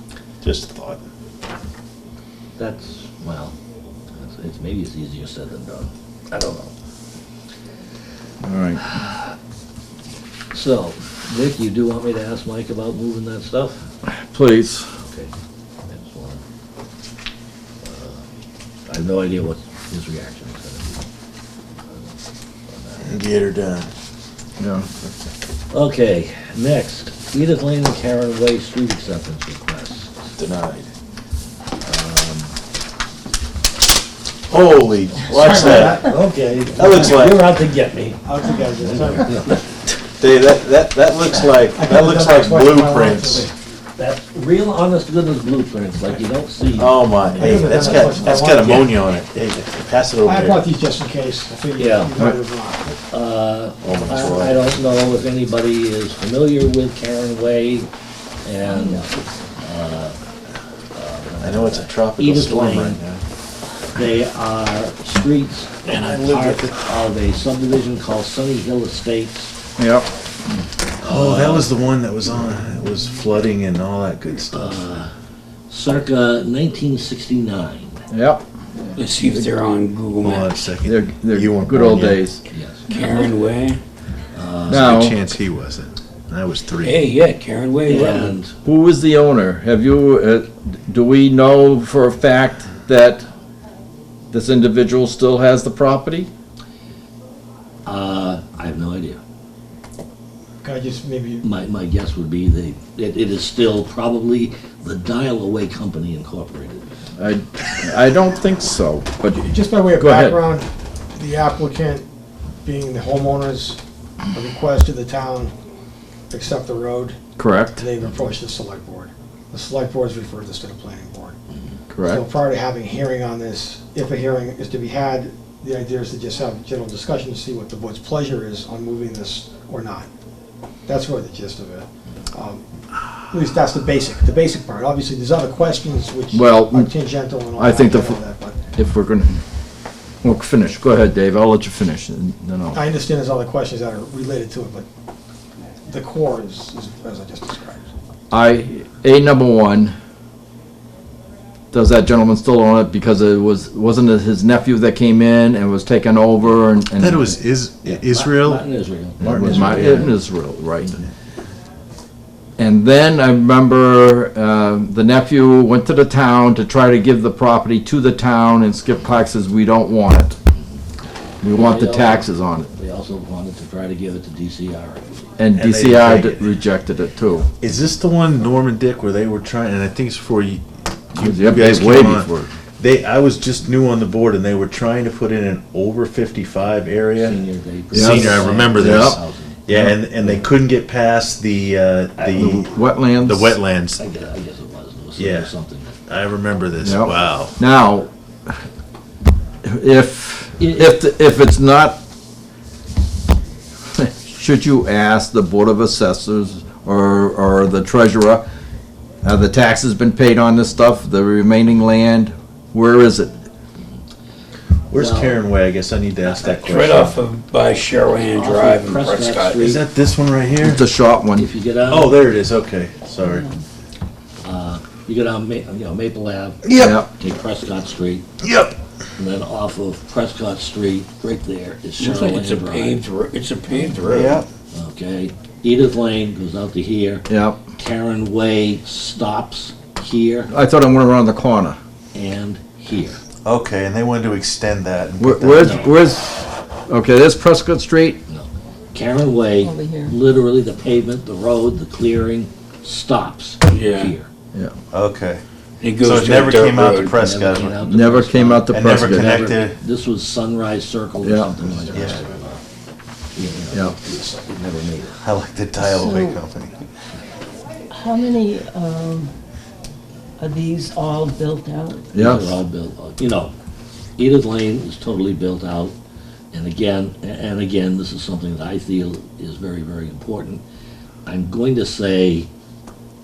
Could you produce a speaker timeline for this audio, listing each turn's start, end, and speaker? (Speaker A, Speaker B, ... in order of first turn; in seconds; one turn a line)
Speaker A: 0.4-1.0
Speaker B: 2.6-3.5
Speaker B: 4.1-6.7
Speaker C: 8.4-8.8
Speaker B: 10.5-13.8
Speaker C: 14.2-14.9
Speaker B: 15.0-15.3
Speaker B: 15.9-16.4
Speaker B: 17.8-18.2
Speaker B: 18.9-21.0
Speaker B: 22.7-23.2
Speaker A: 23.0-23.9
Speaker C: 24.6-24.9
Speaker B: 25.7-30.1
Speaker A: 30.4-30.9
Speaker B: 31.8-32.5
Speaker A: 34.5-36.0
Speaker D: 35.3-37.2
Speaker B: 35.4-38.2
Speaker A: 36.7-37.5
Speaker D: 38.2-39.6
Speaker B: 38.8-39.6
Speaker A: 40.2-43.5
Speaker D: 41.7-43.5
Speaker B: 44.0-49.0
Speaker A: 46.8-50.7
Speaker D: 47.4-49.0
Speaker D: 50.2-53.0
Speaker B: 51.8-52.2
Speaker B: 53.1-57.9
Speaker A: 53.8-54.7
Speaker D: 53.9-54.6
Speaker B: 58.4-60.2
Speaker E: 58.7-59.0
Speaker B: 60.9-63.0
Speaker A: 61.4-63.2
Speaker B: 63.9-69.5
Speaker A: 65.8-66.7
Speaker C: 69.8-70.1
Speaker B: 71.0-71.7
Speaker A: 71.0-74.9
Speaker B: 74.5-75.1
Speaker B: 75.7-77.9
Speaker C: 78.1-78.4
Speaker F: 79.0-80.5
Speaker A: 80.2-82.2
Speaker C: 80.8-82.4
Speaker B: 82.5-82.8
Speaker F: 82.9-83.8
Speaker E: 82.9-83.3
Speaker B: 84.3-84.9
Speaker C: 84.7-85.2
Speaker A: 84.7-87.1
Speaker F: 86.8-88.3
Speaker B: 87.8-88.5
Speaker C: 88.6-93.3
Speaker C: 94.3-96.3
Speaker B: 97.8-99.2
Speaker D: 100.6-101.5
Speaker B: 101.4-106.9
Speaker C: 107.2-110.4
Speaker D: 109.5-112.0
Speaker D: 112.6-113.8
Speaker D: 114.3-115.5
Speaker D: 116.3-117.2
Speaker C: 117.4-117.8
Speaker D: 117.8-121.3
Speaker C: 121.9-122.2
Speaker D: 122.0-130.1
Speaker D: 130.8-132.6
Speaker D: 133.3-138.6
Speaker C: 136.3-136.9
Speaker C: 137.5-138.2
Speaker C: 138.8-139.4
Speaker C: 140.2-142.8
Speaker D: 142.7-144.8
Speaker D: 145.9-147.8
Speaker C: 148.3-149.9
Speaker C: 151.7-157.3
Speaker A: 157.0-158.7
Speaker B: 157.8-160.2
Speaker A: 159.2-160.1
Speaker C: 159.2-160.9
Speaker C: 162.6-170.3
Speaker C: 171.4-172.7
Speaker B: 171.5-175.2
Speaker C: 175.4-177.5
Speaker A: 175.5-176.6
Speaker A: 177.6-180.6
Speaker A: 181.1-187.4
Speaker C: 181.2-182.5
Speaker B: 187.2-189.6
Speaker A: 187.9-194.0
Speaker C: 187.9-189.2
Speaker C: 192.3-193.6
Speaker B: 194.0-195.9
Speaker A: 195.2-195.5
Speaker A: 196.1-197.5
Speaker C: 196.8-198.5
Speaker C: 199.6-202.0
Speaker C: 204.0-208.4
Speaker C: 209.2-213.3
Speaker A: 214.9-217.2
Speaker B: 214.9-215.4
Speaker F: 216.4-219.6
Speaker B: 218.2-219.8
Speaker A: 219.6-220.8
Speaker C: 220.6-221.4
Speaker B: 221.3-222.2
Speaker A: 221.9-223.4
Speaker E: 223.2-223.6
Speaker B: 224.4-228.2
Speaker A: 226.6-227.0
Speaker C: 226.8-227.1
Speaker A: 228.4-228.8
Speaker B: 229.2-233.0
Speaker F: 232.0-234.4
Speaker E: 233.7-234.0
Speaker A: 234.0-234.4
Speaker B: 234.7-240.5
Speaker C: 237.3-237.6
Speaker C: 240.5-241.8
Speaker B: 242.1-243.2
Speaker A: 243.4-245.8
Speaker C: 245.2-248.2
Speaker B: 245.6-245.9
Speaker B: 248.3-254.3
Speaker E: 249.6-250.2
Speaker F: 253.7-254.1
Speaker A: 254.9-255.4
Speaker F: 255.8-257.2
Speaker A: 256.0-257.8
Speaker B: 257.2-262.6
Speaker C: 257.9-259.4
Speaker A: 258.7-259.8
Speaker C: 261.2-261.5
Speaker A: 261.9-262.2
Speaker B: 263.3-265.2
Speaker A: 265.2-266.8
Speaker E: 265.8-266.4
Speaker E: 267.9-269.3
Speaker E: 270.4-272.1
Speaker C: 272.1-272.5
Speaker B: 272.1-273.5
Speaker B: 274.2-275.9
Speaker B: 276.5-280.6
Speaker B: 281.2-282.5